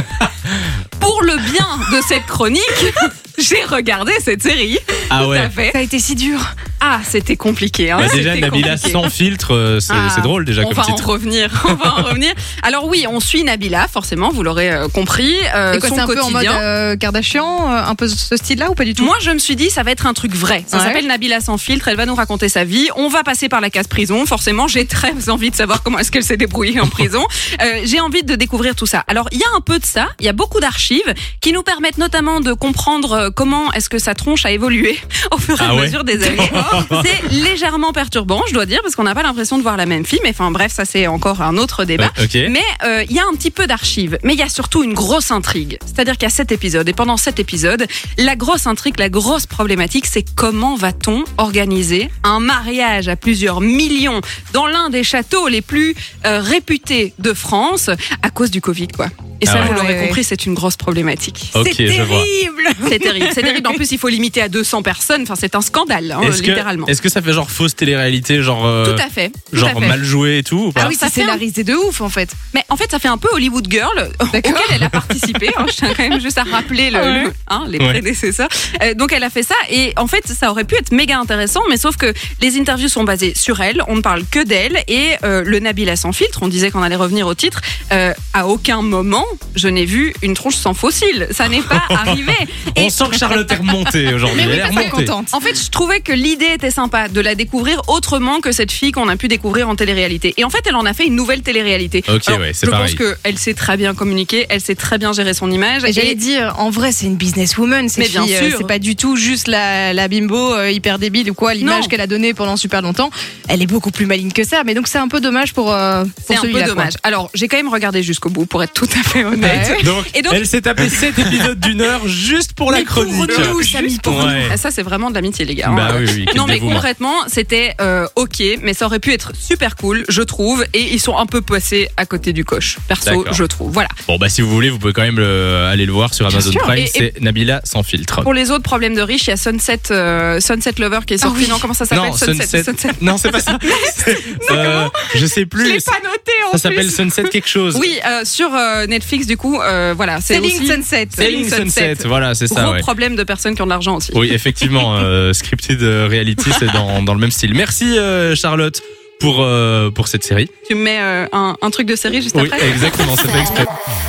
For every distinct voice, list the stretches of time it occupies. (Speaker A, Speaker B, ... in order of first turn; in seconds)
Speaker A: 0.2-0.7, 5.1-5.5, 8.0-11.1, 11.7-12.0, 35.6-37.0, 42.0-42.5, 59.5-59.8, 61.5-62.3, 66.2-71.0, 91.7-92.2, 92.7-95.1, 102.1-103.0, 119.4-124.5, 125.6-126.8, 133.0-133.4, 134.1-138.3, 141.9-145.9, 146.5-147.8, 151.2-152.8, 154.1-160.5, 162.3-163.7
Speaker B: 1.0-5.8, 6.8-9.1, 9.9-16.6, 19.0-61.5, 62.8-66.9, 68.8-70.0, 70.8-71.4, 72.5-93.1, 94.4-106.2, 108.0-108.7, 111.6-111.9, 116.3-120.5, 123.3-133.9, 136.7-137.1, 138.2-145.1, 147.7-154.2, 160.7-163.2
Speaker C: 5.7-6.5, 15.7-19.1, 20.7-21.0, 36.3-36.8, 59.5-60.2, 61.6-63.8, 70.8-72.3, 74.3-74.8, 76.9-77.3, 94.3-95.4, 105.8-116.9, 119.4-119.9, 122.7-124.5, 136.3-136.8, 141.2-141.7, 144.5-144.9, 145.6-147.1, 150.3-151.2